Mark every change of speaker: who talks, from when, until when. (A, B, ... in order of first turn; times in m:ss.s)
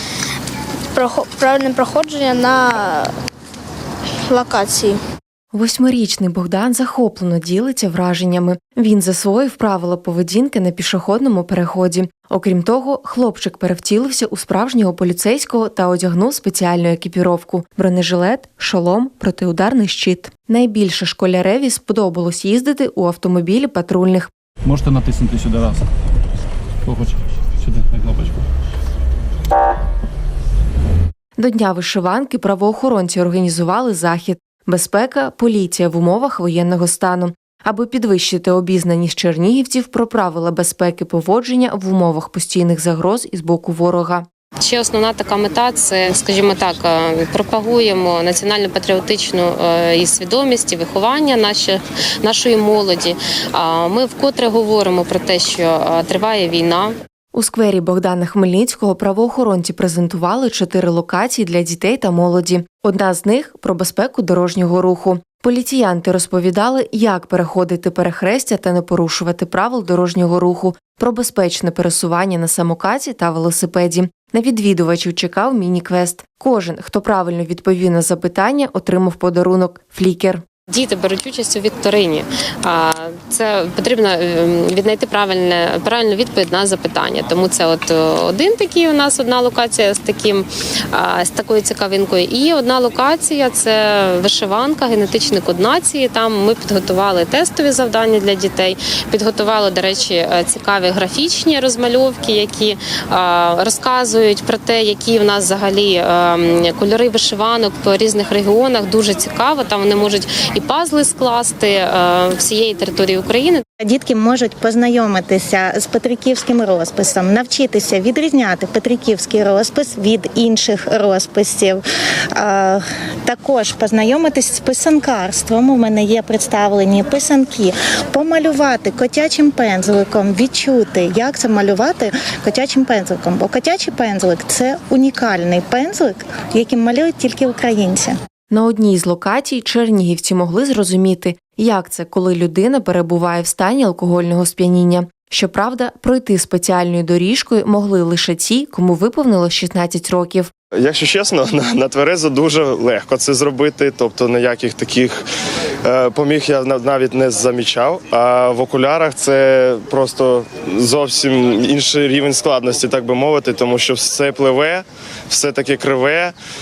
0:00.9-0:03.1 A
0:04.3-0:05.0 A
0:05.5-0:24.3 B
0:24.6-0:25.9 C
0:26.8-0:28.4 C
0:31.4-0:44.2 B
0:44.6-0:56.9 D
0:57.3-1:20.4 B
1:20.7-1:53.6 D
1:53.8-2:01.8 E
2:02.4-2:18.2 E
2:18.5-2:30.5 B
2:30.8-2:35.2 F
2:35.8-2:46.3 F